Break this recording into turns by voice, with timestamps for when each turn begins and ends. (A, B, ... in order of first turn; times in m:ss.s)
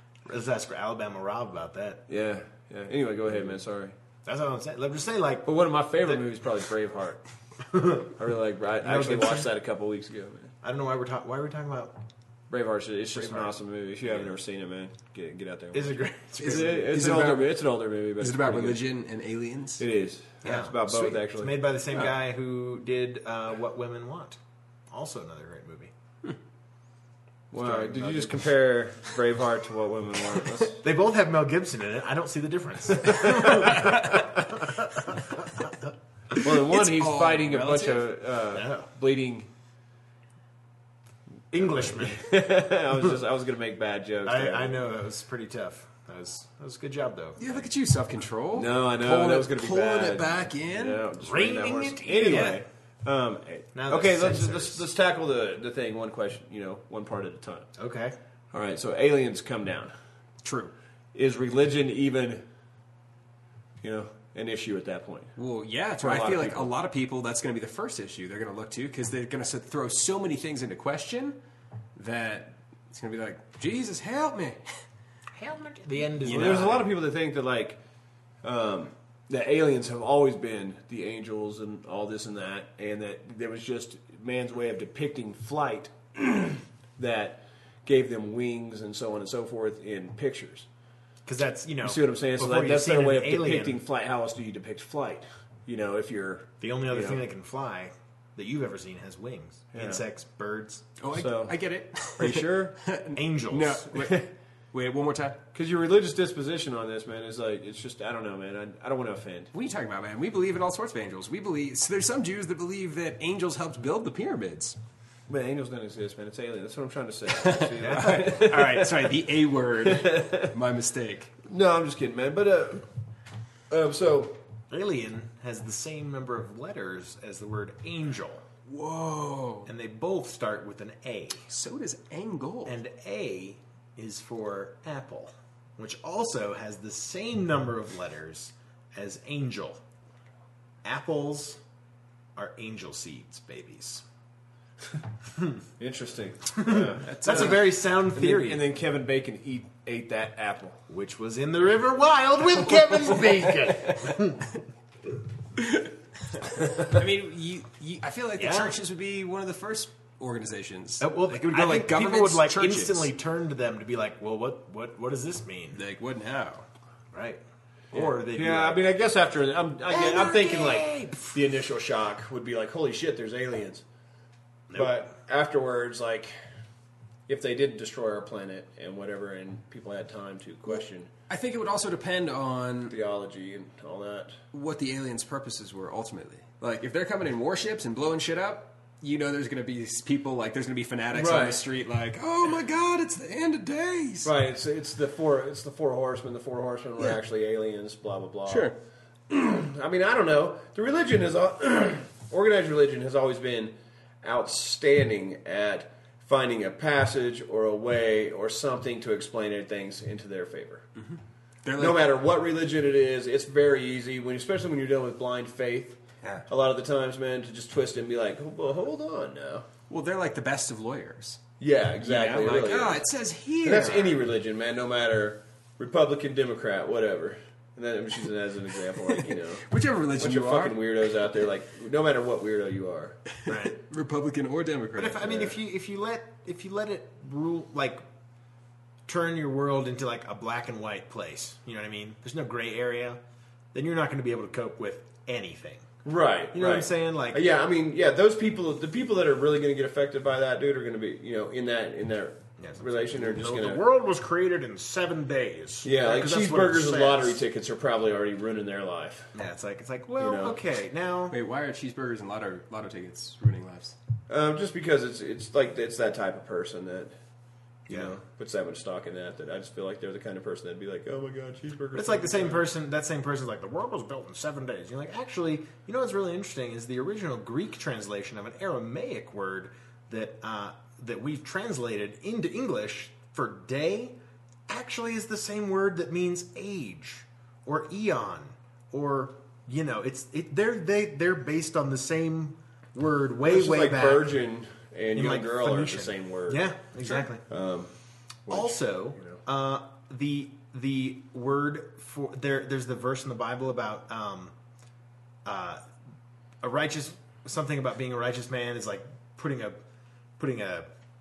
0:00.2-0:02.0 A
0:02.1-0:03.9 B
0:04.2-0:05.5 A
0:05.4-0:07.2 B
0:07.7-0:08.1 A
0:08.0-0:10.5 B
0:08.8-0:09.5 A
0:10.6-0:11.9 A
0:12.5-0:18.8 B
0:13.1-0:13.6 A
0:15.7-0:16.9 A
0:16.4-0:17.5 C
0:18.2-0:19.8 C
0:19.8-0:21.6 B
0:20.4-0:24.4 A
0:24.9-0:25.9 A
0:27.5-0:30.8 B
0:27.5-0:28.5 A
0:30.8-0:36.4 A
0:33.0-0:34.3 B
0:36.4-0:39.5 B
0:36.5-0:38.1 C
0:38.5-0:38.8 A
0:41.5-0:42.2 A
0:41.6-0:44.8 B
0:44.2-0:47.7 A
0:47.4-0:51.0 C
0:48.5-0:57.7 B
0:51.2-0:52.6 A
0:52.2-0:52.6 C
0:53.7-0:54.8 A
0:57.8-0:58.2 A
0:58.5-0:59.9 B
1:00.4-1:00.7 C
1:01.1-1:02.4 B
1:03.8-1:05.4 B
1:05.4-1:11.4 C
1:06.0-1:06.7 B
1:12.0-1:14.6 C
1:15.4-1:16.9 A
1:16.2-1:16.7 C
1:16.3-1:17.8 B
1:18.4-1:30.7 B
1:31.2-1:33.8 A
1:31.8-1:37.2 B
1:36.6-1:40.8 A
1:39.7-1:40.0 B
1:41.0-1:45.4 C
1:41.1-1:41.5 B
1:42.2-1:42.8 B
1:43.1-1:43.9 A
1:43.9-1:44.3 B
1:45.5-1:49.5 B
1:49.5-1:54.8 C
1:55.3-1:59.1 B
1:57.3-2:01.3 C
1:57.8-1:58.4 A
1:59.8-2:00.5 B
2:01.4-2:02.8 B
2:03.7-2:04.4 B
2:04.7-2:08.4 A
2:08.7-2:09.7 C
2:09.6-2:11.5 A
2:11.5-2:12.8 C
2:12.6-2:19.8 A
2:20.8-2:21.6 A
2:22.4-2:24.0 A
2:25.8-2:30.8 B
2:26.5-2:28.6 A
2:27.0-2:27.5 C
2:30.9-2:34.6 A
2:36.7-2:43.1 C
2:38.4-2:38.8 A
2:41.0-2:45.8 A
2:45.7-2:46.7 C
2:47.1-2:47.4 A
2:47.9-2:48.8 A
2:47.9-2:53.8 B
2:49.9-2:51.4 A
2:54.7-2:55.0 A
2:54.7-2:56.3 B
2:57.3-3:01.1 B
3:01.3-3:02.9 C
3:02.9-3:04.4 B
3:04.5-3:14.3 C
3:11.1-3:11.6 B
3:14.2-3:18.7 B
3:18.5-3:18.8 C
3:19.3-3:30.9 B
3:31.0-3:32.0 C
3:31.8-3:39.7 B
3:39.9-3:41.4 C
3:41.6-3:43.0 B
3:42.0-3:44.2 C
3:43.6-3:53.2 B
3:49.6-3:50.8 C
3:53.5-3:53.8 A
3:53.6-3:55.5 C
3:55.0-3:58.0 A
3:59.0-4:03.2 A
4:03.7-4:05.9 A
4:06.0-4:13.8 B
4:06.5-4:07.4 A
4:12.6-4:17.4 A
4:15.8-4:19.3 B
4:19.3-4:21.4 A
4:20.2-4:20.6 B
4:21.3-4:24.0 C
4:24.3-4:27.1 B
4:27.9-4:28.1 A
4:27.9-4:32.6 B
4:31.9-4:44.2 A
4:44.7-4:54.3 A
4:53.5-4:56.8 B
4:55.1-4:57.4 A
4:57.5-4:57.9 B
4:58.4-4:59.4 B
4:58.5-5:04.5 A
5:05.4-5:05.8 A
5:06.6-5:09.8 A
5:10.4-5:10.9 A